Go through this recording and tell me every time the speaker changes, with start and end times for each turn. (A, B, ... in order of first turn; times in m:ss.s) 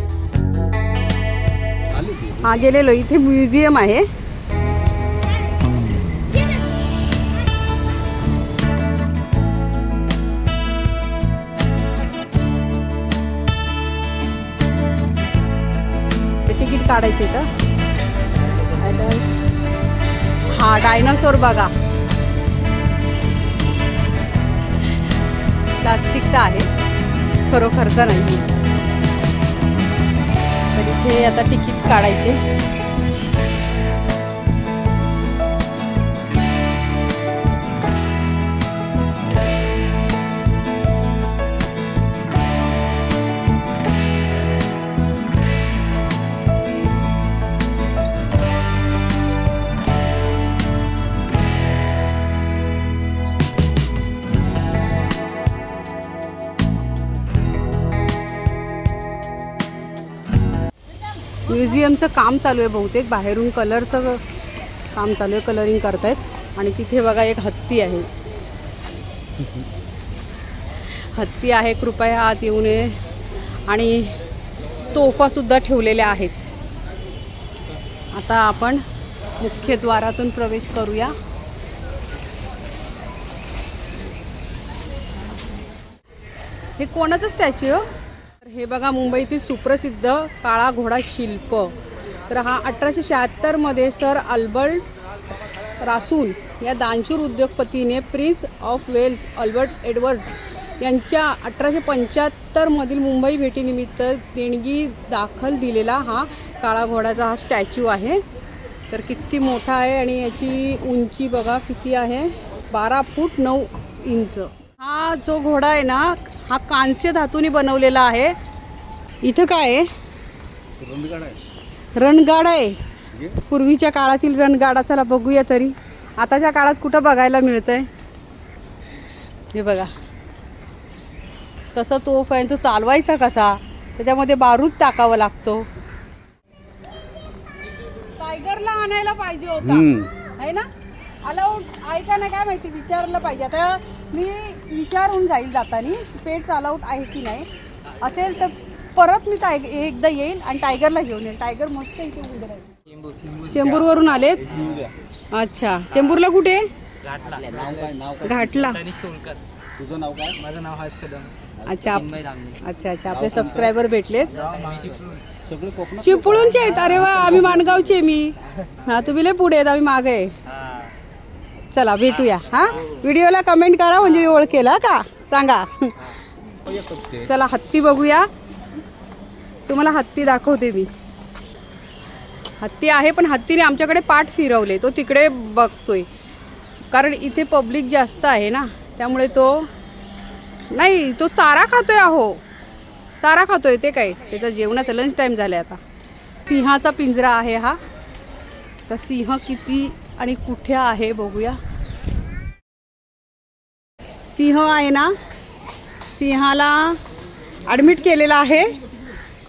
0:01.9-0:02.5 A
0:02.4-0:04.1 B
0:16.5-0:17.5 B
0:18.7-0:19.2 B
0:20.5-0:21.7 B
0:25.8-0:26.7 B
0:27.5-0:28.5 B
0:30.7-0:32.4 B
1:01.4-1:04.2 B
1:04.9-1:08.1 B
1:10.9-1:13.0 B
1:13.7-1:14.1 B
1:14.9-1:16.4 B
1:18.1-1:18.8 B
1:19.4-1:21.1 B
1:26.8-1:27.9 B
1:28.4-1:31.8 B
1:32.3-1:34.9 B
1:35.8-1:48.2 B
1:48.9-1:58.4 B
1:59.2-1:59.9 B
2:00.8-2:01.4 A
2:02.0-2:02.8 B
2:03.1-2:03.4 A
2:03.5-2:07.9 B
2:09.5-2:09.9 B
2:11.7-2:15.7 B
2:18.2-2:20.7 B
2:19.6-2:20.1 A
2:21.2-2:27.5 B
2:28.0-2:32.8 B
2:33.0-2:33.4 C
2:33.5-2:34.5 B
2:33.5-2:34.9 A
2:35.3-2:36.7 B
2:37.1-2:37.7 C
2:37.4-2:38.7 A
2:38.2-2:38.9 B
2:38.9-2:39.4 C
2:39.8-2:40.4 A
2:40.4-2:41.3 C
2:41.6-2:42.0 A
2:41.7-2:44.4 B
2:42.2-2:42.6 C
2:43.1-2:43.7 A
2:44.4-2:45.2 C
2:45.4-2:47.7 A
2:46.0-2:50.4 B
2:51.7-2:55.9 B
2:56.5-2:57.3 A
2:57.2-2:58.3 B
2:59.7-3:00.9 B
3:02.6-3:06.1 B
3:06.9-3:09.7 B
3:10.7-3:12.4 B
3:13.2-3:15.8 B
3:16.4-3:17.8 B
3:18.9-3:21.6 B
3:24.3-3:25.1 B
3:26.1-3:27.0 B
3:27.6-3:28.8 B